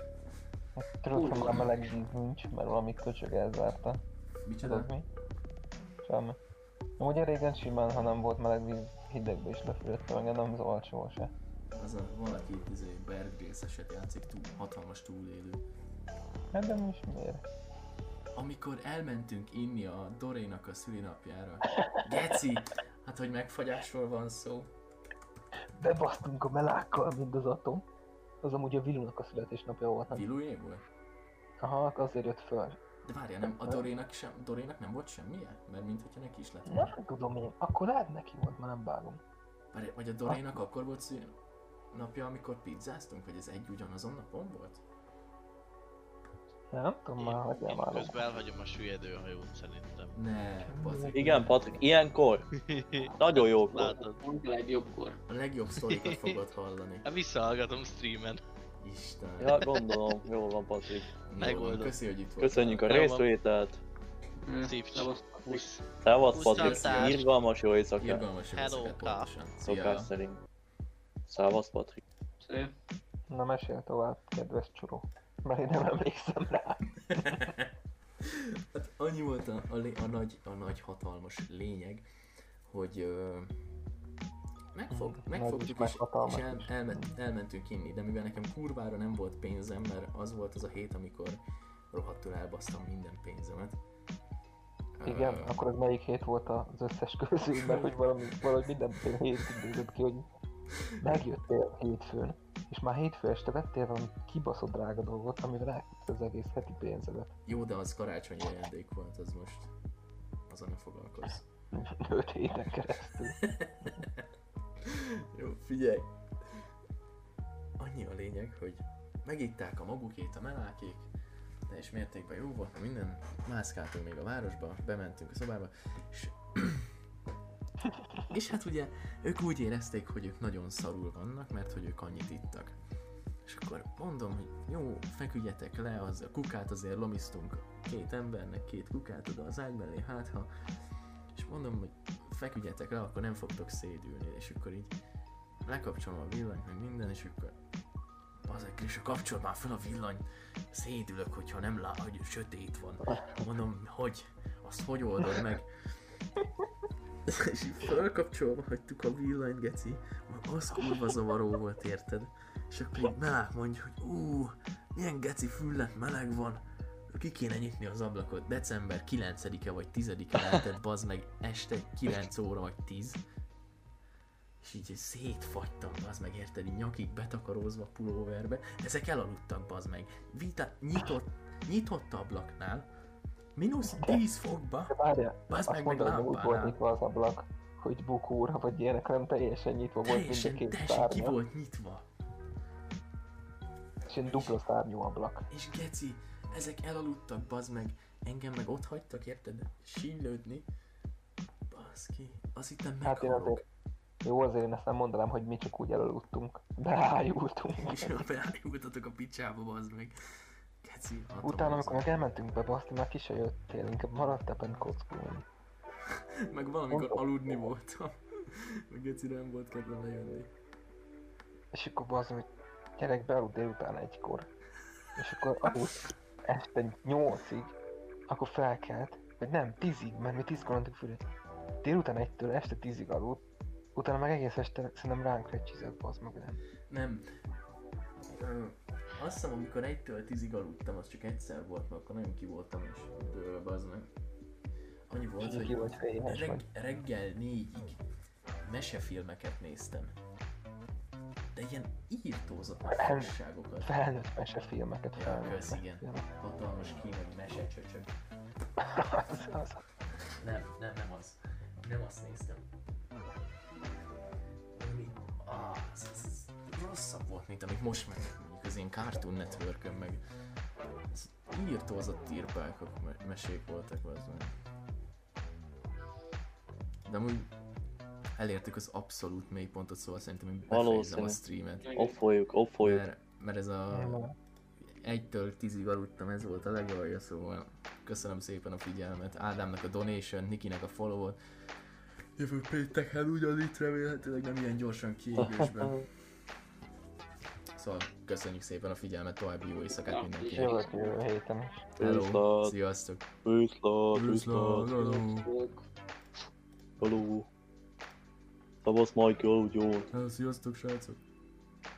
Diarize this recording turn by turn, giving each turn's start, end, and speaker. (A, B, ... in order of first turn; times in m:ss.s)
0:00.8-0:04.0 A
0:01.1-0:01.7 B
0:04.4-0:04.9 C
0:04.6-0:05.0 A
0:06.0-0:06.4 A
0:07.0-0:11.3 A
0:11.7-0:15.6 C
0:16.5-0:17.4 A
0:18.3-0:24.7 C
0:21.7-0:22.0 A
0:25.8-0:27.8 A
0:28.4-0:30.2 A
0:30.1-0:30.8 C
0:31.6-0:32.8 A
0:33.0-0:36.9 C
0:33.5-0:33.8 A
0:36.7-0:39.2 A
0:39.7-0:41.4 C
0:41.9-0:44.8 C
0:46.7-0:48.2 A
0:47.2-0:50.1 D
0:50.1-0:51.5 C
0:50.7-0:51.8 A
0:51.1-0:52.4 E
0:52.6-0:54.2 D
0:53.2-0:53.9 E
0:53.7-0:55.2 B
0:55.3-0:57.0 C
0:55.9-0:56.2 D
0:57.0-0:58.4 D
0:58.8-0:59.7 C
0:59.4-1:01.1 E
0:59.7-1:00.0 D
1:01.3-1:02.9 C
1:01.4-1:02.0 D
1:02.4-1:03.8 E
1:02.9-1:03.3 D
1:04.4-1:05.7 B
1:04.6-1:05.8 D
1:06.0-1:08.2 E
1:06.3-1:06.8 B
1:06.3-1:07.3 D
1:06.4-1:07.2 C
1:08.0-1:10.1 C
1:08.5-1:09.3 D
1:09.6-1:10.4 E
1:11.3-1:12.0 E
1:12.4-1:12.7 B
1:13.3-1:17.4 A
1:17.1-1:17.7 C
1:18.2-1:22.0 C
1:22.7-1:23.5 C
1:24.7-1:31.4 C
1:24.9-1:27.1 A
1:31.9-1:33.8 C
1:35.0-1:35.6 C
1:35.0-1:40.2 A
1:37.6-1:37.9 C
1:41.0-1:47.3 A
1:47.4-1:49.7 C
1:50.5-1:51.4 C
1:51.7-1:53.4 A
1:53.4-1:54.2 C
1:54.8-1:56.6 C
1:57.8-2:01.1 C
2:01.7-2:06.9 C
2:08.3-2:12.8 C
2:13.4-2:20.5 C
2:21.3-2:24.9 C
2:25.6-2:27.6 C
2:28.4-2:35.7 C
2:37.2-2:53.2 C
2:54.6-3:02.9 C
3:03.5-3:06.8 C
3:03.9-3:04.2 A
3:04.9-3:11.4 A
3:10.0-3:12.1 C
3:14.1-3:15.5 A
3:14.3-3:14.6 C
3:15.5-3:20.7 C
3:21.7-3:23.6 C
3:23.0-3:23.6 A
3:24.2-3:28.1 A
3:27.8-3:30.1 C
3:30.8-3:32.1 C
3:31.4-3:35.4 A
3:36.1-3:40.5 C
3:36.9-3:37.2 A
3:41.7-3:42.5 A
3:43.0-3:44.5 A
3:45.2-3:47.7 A
3:48.3-3:51.2 A
3:51.8-3:53.4 A
3:53.9-3:56.6 A
3:56.9-3:57.2 C
3:58.3-4:04.1 C
4:05.1-4:08.0 C
4:05.4-4:06.6 A
4:08.6-4:10.1 C
4:11.5-4:14.0 C
4:12.9-4:16.3 A
4:15.2-4:18.1 C
4:18.8-4:19.8 A
4:20.4-4:22.7 C
4:24.7-4:30.2 C
4:31.1-4:34.5 C
4:37.0-4:37.5 C
4:38.4-4:42.0 C
4:40.7-4:41.4 E
4:41.8-4:42.1 B
4:41.9-4:43.0 E
4:42.8-4:44.2 C
4:43.9-4:44.3 A
4:44.8-4:51.4 C
4:52.4-4:56.0 C
4:55.4-4:55.9 E
4:57.8-5:00.8 C
5:00.0-5:01.2 B
5:00.5-5:01.9 A
5:02.0-5:02.7 E
5:02.0-5:03.3 C
5:03.4-5:04.9 E
5:04.1-5:05.5 C
5:04.8-5:05.8 B
5:07.0-5:07.5 E
5:08.8-5:10.1 E
5:10.1-5:11.2 C